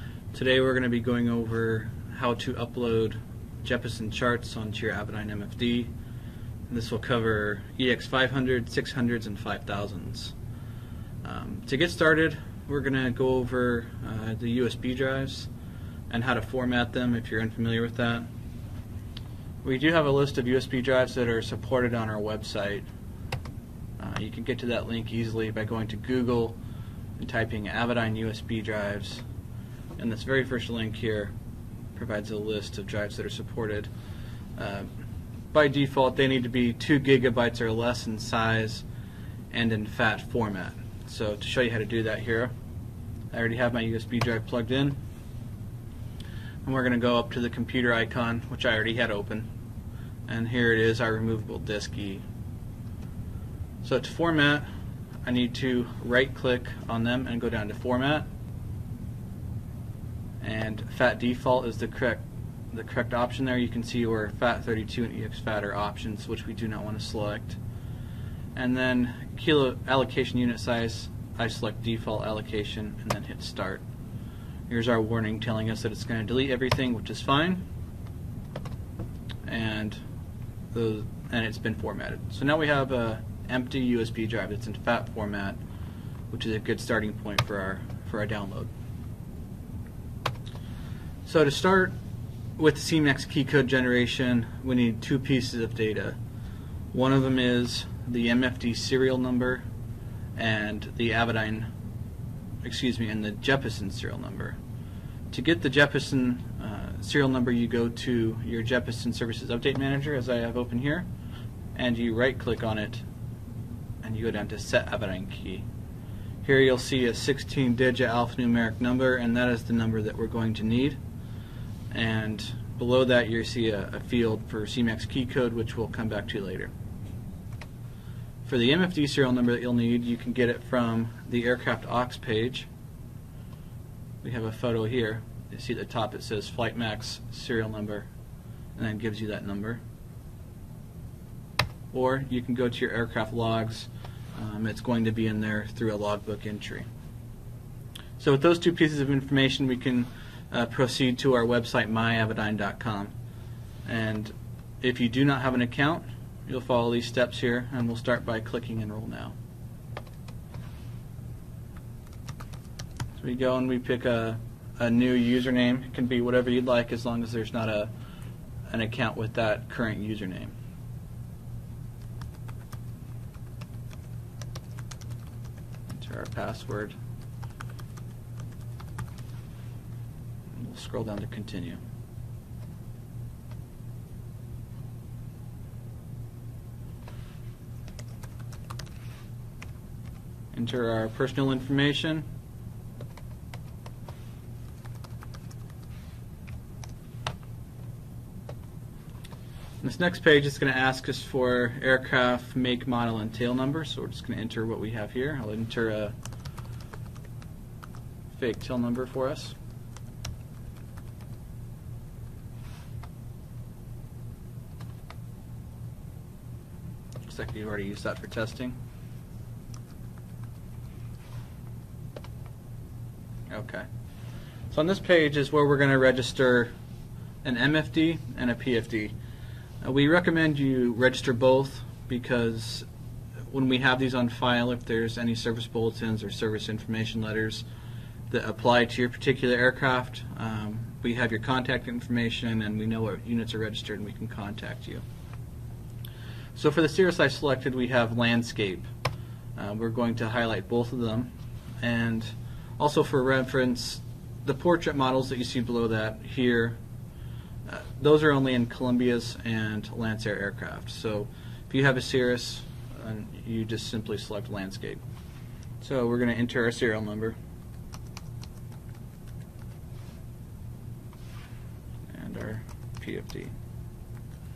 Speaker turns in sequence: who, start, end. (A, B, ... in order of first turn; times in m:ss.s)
0:00.3-0:05.9 A
0:06.7-0:10.4 A
0:11.2-0:15.5 A
0:16.1-0:18.3 A
0:19.6-0:22.9 A
0:24.0-0:26.6 A
0:27.2-0:29.2 A
0:30.0-0:31.3 A
0:32.0-0:33.9 A
0:34.6-0:34.9 A
0:35.5-0:38.8 A
0:39.5-0:42.5 A
0:43.3-0:45.0 A
0:46.6-0:49.5 A
0:50.3-0:52.2 A
0:53.8-0:54.7 A
0:55.2-0:58.3 A
1:00.4-1:07.6 A
1:08.6-1:13.8 A
1:14.7-1:17.7 A
1:19.4-1:20.0 A
1:20.7-1:25.6 A
1:26.3-1:28.7 A
1:31.2-1:32.0 A
1:32.6-1:36.2 A
1:36.9-1:39.6 A
1:40.4-1:41.7 A
1:42.6-1:44.6 A
1:45.3-1:51.1 A
1:51.7-1:53.0 A
1:54.0-1:55.7 A
1:56.4-2:01.0 A
2:01.9-2:06.7 A
2:08.4-2:12.7 A
2:14.2-2:18.1 A
2:18.8-2:19.8 A
2:21.9-2:26.9 A
2:28.2-2:33.1 A
2:33.8-2:39.4 A
2:43.2-2:47.9 A
2:48.7-2:50.5 A
2:55.9-2:57.0 A
3:00.5-3:01.8 A
3:10.5-3:12.3 A
3:19.8-3:26.2 A
3:28.3-3:29.6 A
3:37.2-3:38.8 A
3:43.5-3:43.9 A
3:44.7-3:46.7 A
3:47.4-3:49.2 A
3:49.8-3:52.9 A
3:53.5-3:57.7 A
3:58.3-4:05.0 A
4:06.6-4:08.9 A
4:09.6-4:16.8 A
4:17.7-4:25.0 A
4:25.8-4:27.4 A
4:32.1-4:33.5 A